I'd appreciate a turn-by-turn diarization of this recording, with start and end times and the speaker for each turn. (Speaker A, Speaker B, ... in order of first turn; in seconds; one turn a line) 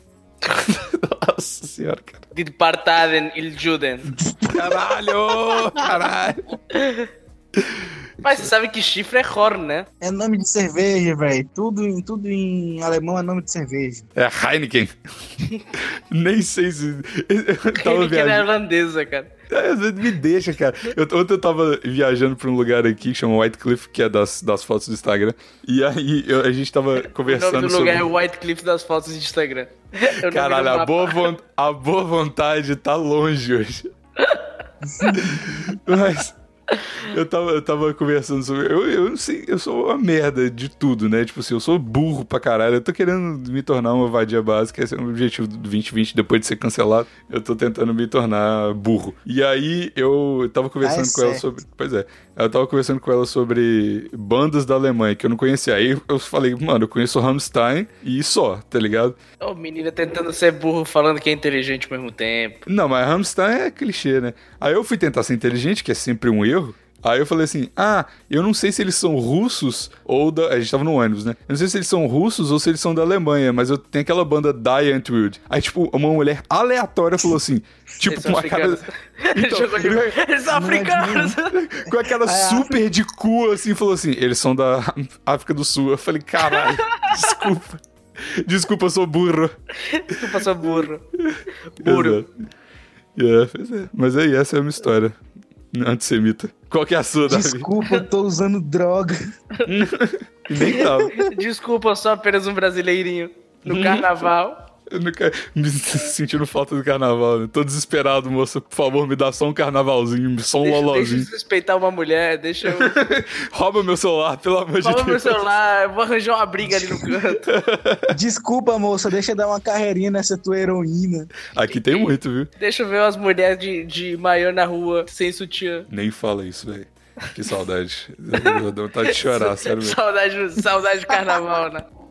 Speaker A: 0.4-2.2
Speaker B: 2.3-4.1
Speaker C: 4.1-4.8
Speaker A: 4.5-6.5
Speaker B: 6.7-7.1
Speaker A: 7.6-8.5
Speaker B: 8.2-9.8
Speaker C: 10.0-14.1
Speaker A: 14.2-14.9
Speaker A: 15.7-18.4
Speaker B: 17.8-19.3
Speaker A: 19.5-28.1
Speaker B: 27.1-31.3
Speaker A: 30.2-33.9
Speaker C: 34.8-35.8
Speaker A: 35.1-36.4
Speaker A: 37.0-59.2
Speaker C: 50.8-51.4
Speaker B: 59.4-62.6
Speaker A: 62.7-80.1
Speaker B: 78.0-81.5
Speaker C: 80.5-81.4
Speaker A: 81.5-89.5
Speaker C: 82.2-82.8
Speaker B: 86.5-87.1
Speaker B: 89.8-91.0
Speaker A: 90.6-92.3
Speaker B: 91.8-92.2
Speaker A: 93.2-95.2
Speaker A: 95.7-97.7
Speaker C: 97.3-99.2
Speaker A: 99.7-101.3
Speaker B: 100.6-104.5
Speaker A: 103.7-104.1
Speaker A: 104.9-111.3
Speaker B: 110.6-112.9
Speaker A: 112.7-115.4
Speaker B: 114.8-117.5
Speaker A: 117.4-118.1
Speaker C: 118.1-121.3
Speaker A: 121.5-122.5
Speaker B: 121.7-122.0
Speaker B: 122.6-125.9
Speaker A: 125.9-130.0
Speaker B: 128.3-131.8